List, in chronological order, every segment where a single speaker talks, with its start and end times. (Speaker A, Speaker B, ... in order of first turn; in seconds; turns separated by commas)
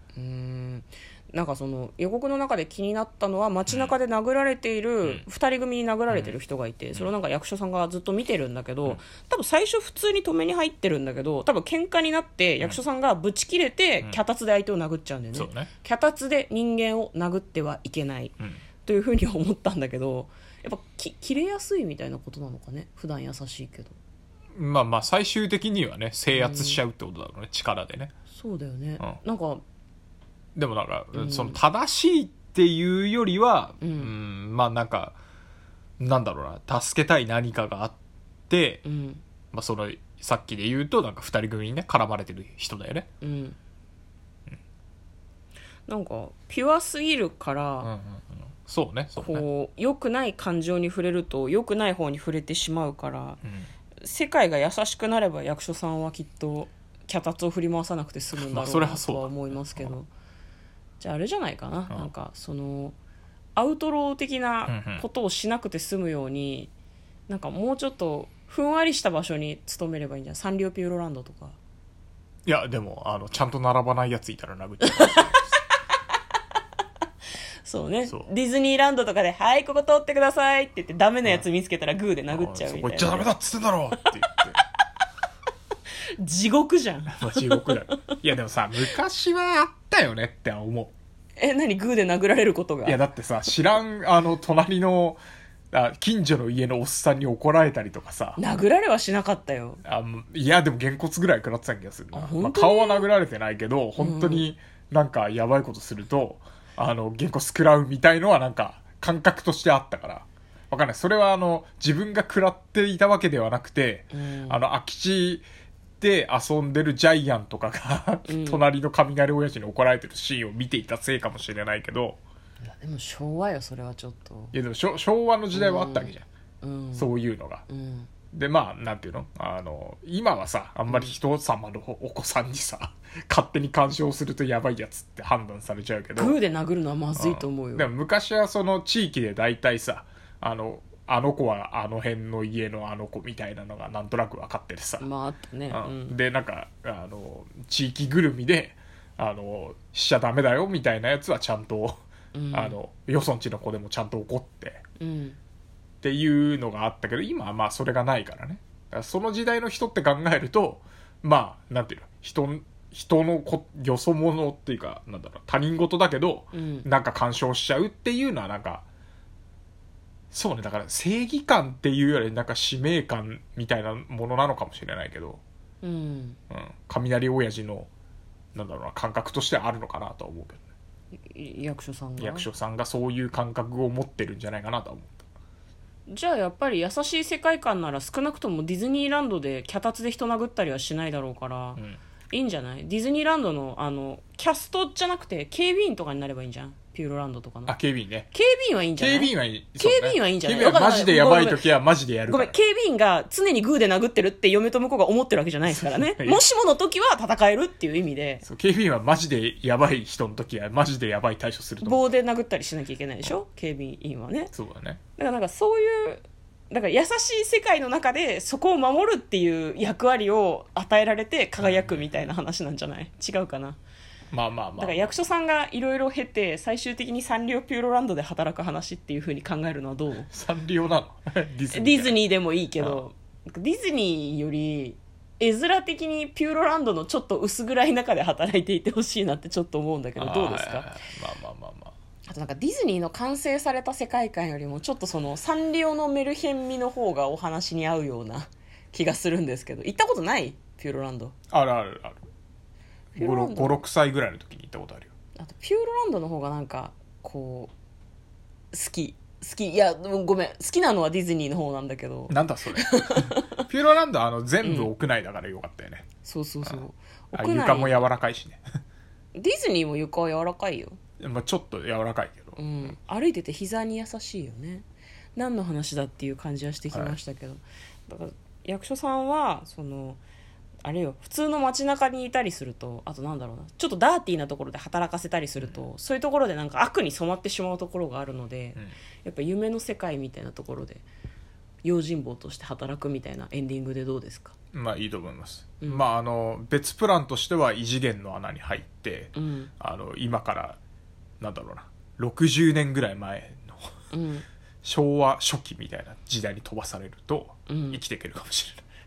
Speaker A: 0.1-24.0, Speaker B: 3.7-3.9, Speaker B: 6.1-6.3, Speaker B: 15.3-15.7, Speaker B: 24.5-28.1, Speaker A: 26.3-26.8, Speaker A: 28.3-29.6, Speaker B: 30.5-35.2, Speaker A: 31.1-31.6, Speaker A: 33.8-34.1, Speaker B: 36.0-38.0, Speaker B: 38.5-38.8, Speaker A: 38.8-39.2, Speaker B: 39.5-43.1, Speaker A: 43.2-43.6, Speaker A: 45.9-47.9, Speaker B: 47.8-49.5, Speaker A: 49.1-53.4, Speaker A: 54.0-60.1, Speaker B: 58.3-59.9, Speaker A: 61.0-63.0, Speaker A: 63.5-66.7, Speaker B: 64.7-65.0, Speaker A: 67.3-71.6, Speaker B: 72.5-75.4, Speaker A: 74.8-76.0, Speaker A: 77.6-83.3, Speaker B: 82.3-84.6, Speaker A: 86.2-88.1, Speaker B: 87.1-90.9, Speaker A: 91.4-93.0, Speaker B: 92.8-95.2, Speaker B: 95.7-98.4, Speaker A: 98.4-99.8, Speaker B: 99.8-115.4, Speaker A: 102.1-103.1, Speaker A: 104.0-104.5, Speaker A: 114.1-114.6, Speaker B: 116.0-122.2, Speaker A: 118.2-118.6, Speaker A: 122.6-124.5, Speaker B: 124.5-126.2, Speaker A: 125.5-127.1, Speaker B: 126.9-127.6, Speaker A: 127.7-128.1, Speaker B: 128.3-136.4, Speaker A: 130.9-131.1, Speaker A: 136.2-137.9, Speaker B: 137.2-145.1, Speaker A: 145.0-146.1, Speaker B: 145.7-152.0, Speaker A: 152.3-152.8, Speaker B: 152.5-154.8, Speaker A: 155.0-155.4, Speaker B: 156.0-168.8, Speaker A: 166.5-166.8, Speaker B: 170.3-175.4, Speaker A: 175.8-176.4, Speaker B: 176.5-177.9, Speaker B: 178.5-180.7, Speaker A: 181.2-182.5, Speaker B: 182.2-185.2, Speaker A: 186.1-197.7, Speaker B: 197.7-198.3, Speaker A: 198.3-201.7, Speaker B: 199.0-202.6, Speaker A: 202.3-208.4, Speaker B: 205.7-206.4, Speaker B: 208.4-212.0, Speaker A: 211.8-214.5, Speaker B: 214.5-215.0, Speaker A: 215.2-223.8, Speaker B: 221.6-222.0, Speaker B: 224.3-225.2, Speaker A: 224.8-230.3, Speaker B: 230.3-232.2, Speaker A: 231.7-240.9, Speaker B: 232.8-233.0, Speaker B: 240.2-241.9, Speaker A: 242.3-251.3, Speaker B: 251.5-252.2, Speaker A: 253.1-253.8, Speaker B: 253.2-255.1, Speaker A: 255.4-257.7, Speaker A: 258.7-263.7, Speaker B: 262.3-266.1, Speaker A: 264.6-264.9, Speaker A: 266.2-268.1, Speaker B: 266.6-268.6, Speaker A: 269.3-271.0, Speaker B: 271.2-272.9, Speaker A: 272.6-274.8, Speaker A: 275.4-280.2, Speaker B: 276.9-277.2, Speaker A: 280.8-291.0, Speaker A: 291.8-294.5, Speaker B: 294.7-300.8, Speaker A: 299.3-299.7, Speaker B: 301.4-303.9, Speaker A: 304.1-304.4, Speaker B: 304.8-308.8, Speaker A: 307.7-308.0